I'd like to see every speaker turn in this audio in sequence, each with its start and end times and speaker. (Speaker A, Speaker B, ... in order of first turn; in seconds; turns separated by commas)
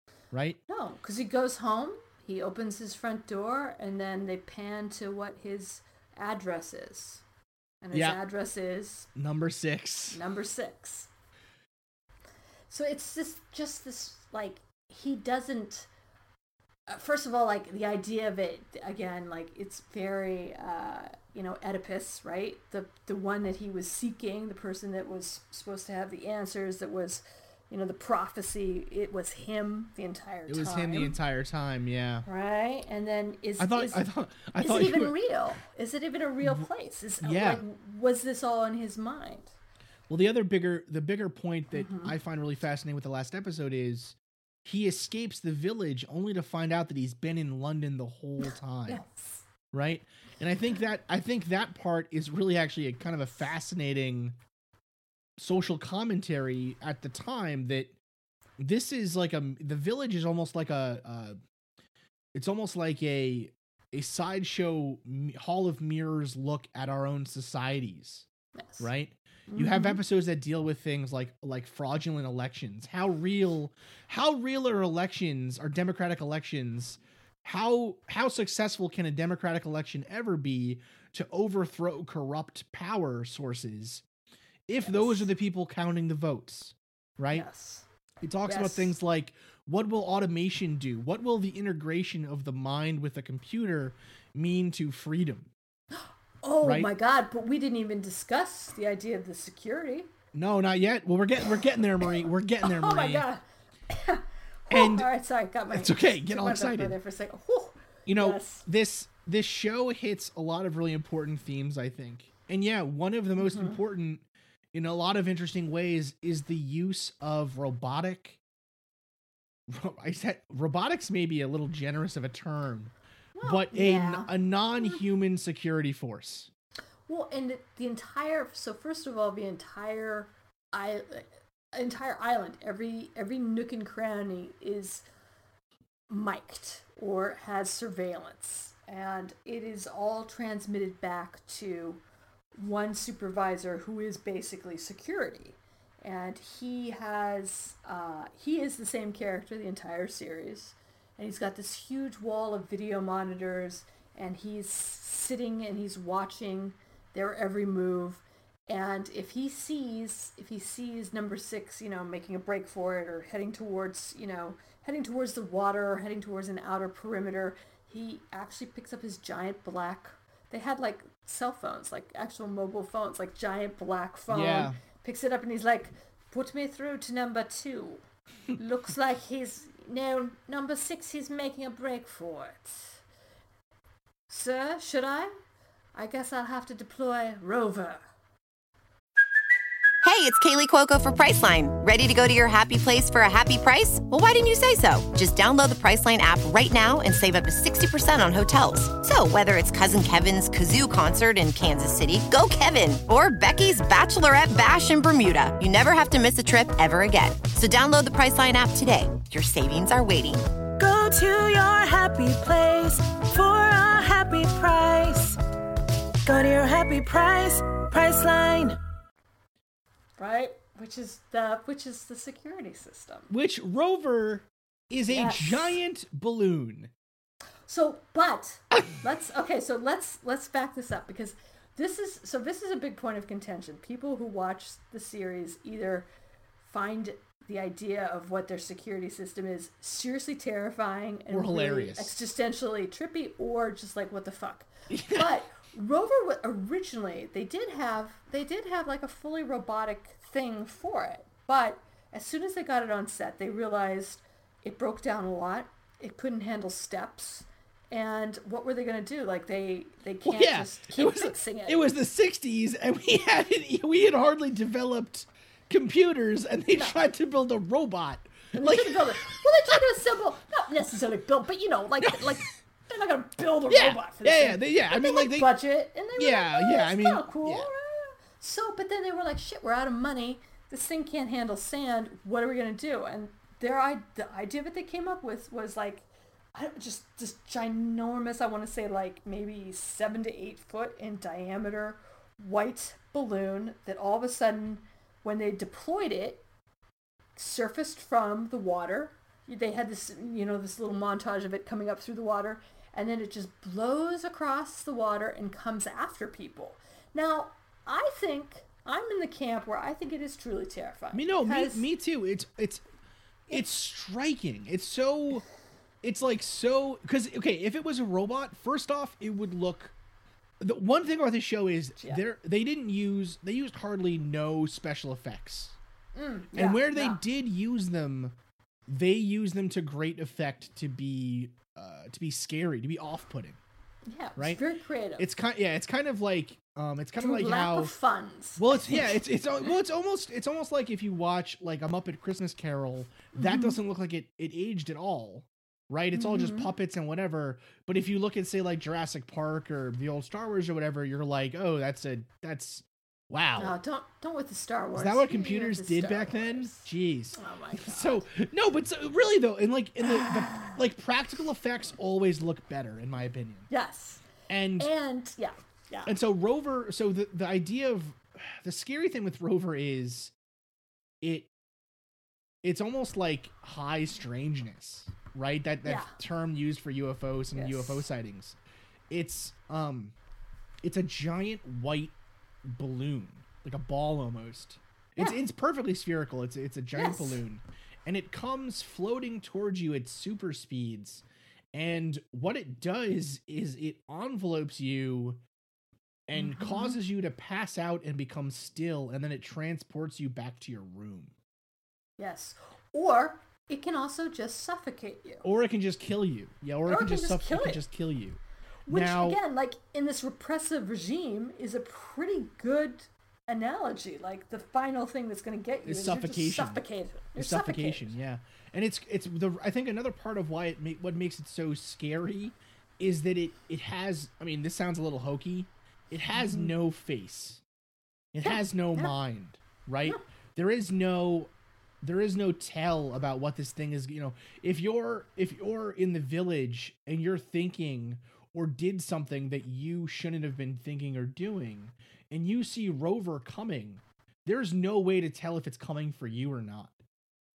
Speaker A: 0.3-0.6, Speaker B: 0.7-7.2, Speaker B: 7.8-9.1, Speaker A: 7.9-8.2, Speaker A: 9.2-10.2, Speaker B: 10.1-11.1, Speaker B: 12.7-15.9, Speaker B: 16.9-31.2, Speaker A: 30.5-32.3, Speaker B: 32.2-34.0, Speaker A: 33.6-35.2, Speaker B: 34.6-39.5, Speaker A: 37.2-37.6, Speaker A: 40.1-49.0, Speaker B: 41.7-42.1, Speaker B: 48.4-49.5, Speaker A: 49.7-54.4, Speaker A: 55.4-58.0, Speaker A: 58.6-61.4, Speaker A: 62.3-68.3, Speaker B: 68.6-68.9, Speaker A: 68.8-84.0, Speaker B: 69.5-70.0, Speaker A: 84.7-87.5, Speaker B: 84.8-85.3, Speaker B: 87.3-87.8, Speaker A: 88.2-95.5, Speaker B: 88.5-88.9, Speaker B: 95.9-100.1, Speaker A: 96.6-96.9, Speaker A: 100.3-103.3, Speaker B: 102.6-108.7, Speaker A: 104.7-105.1, Speaker A: 105.7-107.0, Speaker A: 108.1-118.4, Speaker B: 113.4-113.8, Speaker A: 119.7-126.5, Speaker B: 123.3-125.0, Speaker B: 127.1-135.1, Speaker B: 136.1-142.0, Speaker B: 142.6-178.0, Speaker A: 174.3-174.8, Speaker B: 178.6-183.0, Speaker B: 184.3-185.3, Speaker B: 185.9-188.1, Speaker C: 190.0-210.4, Speaker D: 210.8-215.4, Speaker D: 216.3-218.8, Speaker B: 220.2-223.3, Speaker A: 223.3-226.9, Speaker B: 225.1-225.8, Speaker B: 227.7-236.1, Speaker B: 236.6-261.9, Speaker A: 241.3-242.2, Speaker A: 244.9-245.3, Speaker A: 260.2-269.8, Speaker B: 266.8-267.0, Speaker B: 268.5-296.4, Speaker A: 272.0-272.5, Speaker A: 273.7-275.6, Speaker A: 276.2-277.7, Speaker B: 297.4-311.9, Speaker A: 311.1-312.8, Speaker A: 313.5-315.4, Speaker A: 316.0-319.9, Speaker A: 320.6-325.8, Speaker B: 326.1-327.2, Speaker A: 326.5-328.4, Speaker A: 328.9-333.6, Speaker B: 334.1-335.3, Speaker A: 334.4-334.6, Speaker A: 335.2-337.9, Speaker B: 337.2-339.2, Speaker A: 338.6-353.8, Speaker B: 343.4-343.8, Speaker B: 346.1-346.7, Speaker B: 353.6-358.2, Speaker A: 355.0-363.7, Speaker B: 360.0-360.8, Speaker B: 363.7-366.1, Speaker A: 364.5-364.9, Speaker A: 366.1-370.3, Speaker A: 371.2-371.5, Speaker A: 372.6-378.6, Speaker B: 375.9-376.1, Speaker B: 377.5-378.1, Speaker A: 379.1-380.1, Speaker A: 380.8-395.4, Speaker B: 386.9-387.4, Speaker A: 396.3-401.4, Speaker B: 396.3-397.0, Speaker B: 402.2-405.5, Speaker A: 405.4-409.4, Speaker B: 406.9-407.8, Speaker B: 408.9-418.1, Speaker A: 415.8-427.6, Speaker B: 426.3-426.7, Speaker A: 428.3-431.5, Speaker B: 428.4-429.1, Speaker A: 432.0-447.0